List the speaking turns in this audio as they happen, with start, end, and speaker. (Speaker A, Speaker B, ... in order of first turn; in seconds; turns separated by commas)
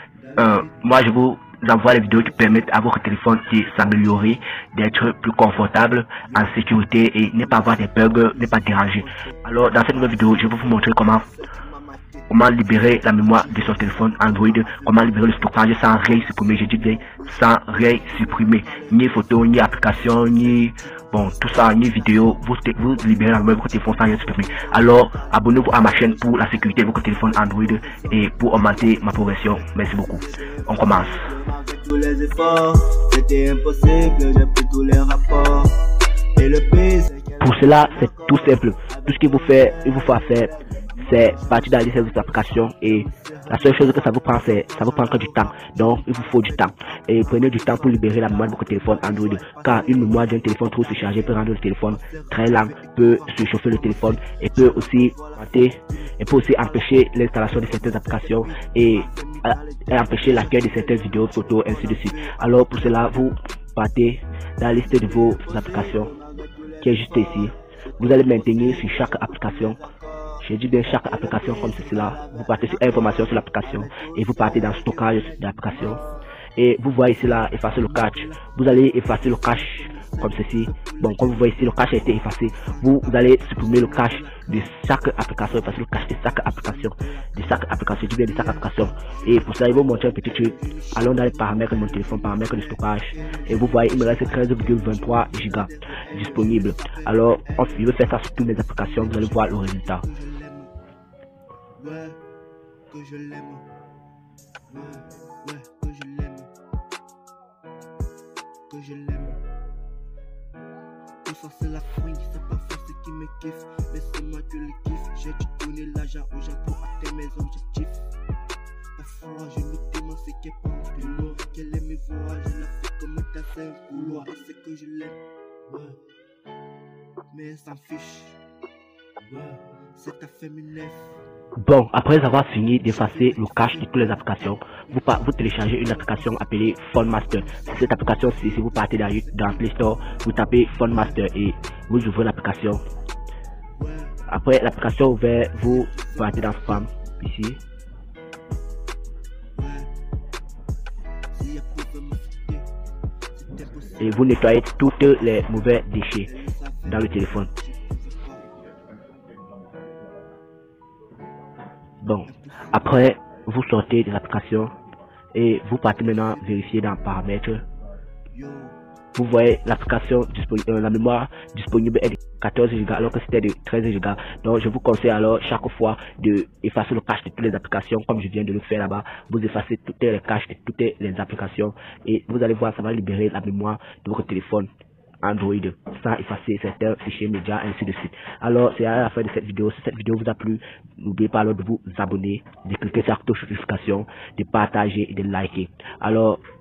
Speaker A: 0.2-1.1, Speaker B: 0.4-11.3, Speaker A: 1.9-2.7, Speaker A: 3.8-4.2, Speaker A: 6.3-20.7, Speaker B: 12.3-31.3, Speaker A: 21.2-56.9, Speaker B: 37.4-66.1, Speaker A: 57.5-63.1, Speaker A: 64.9-76.2, Speaker B: 66.8-69.8, Speaker B: 70.4-76.0, Speaker B: 76.6-100.0, Speaker A: 77.2-84.8, Speaker A: 85.5-100.7, Speaker A: 101.8-102.2, Speaker A: 102.9-103.7, Speaker A: 104.7-106.5, Speaker A: 108.7-109.4, Speaker A: 111.2-118.1, Speaker A: 119.0-126.0, Speaker A: 127.3-128.4, Speaker A: 129.3-131.2, Speaker B: 131.6-142.8, Speaker A: 132.9-139.9, Speaker A: 140.8-141.2, Speaker A: 143.8-144.2, Speaker B: 144.3-147.6, Speaker A: 145.5-146.8, Speaker A: 149.6-149.9, Speaker A: 151.3-152.7, Speaker A: 153.3-154.3, Speaker B: 154.0-156.3, Speaker A: 156.2-158.5, Speaker B: 156.9-157.5, Speaker B: 162.0-164.7, Speaker A: 162.3-163.0, Speaker B: 165.3-167.7, Speaker A: 166.0-166.4, Speaker A: 168.3-168.8, Speaker B: 169.2-184.7, Speaker B: 185.2-196.4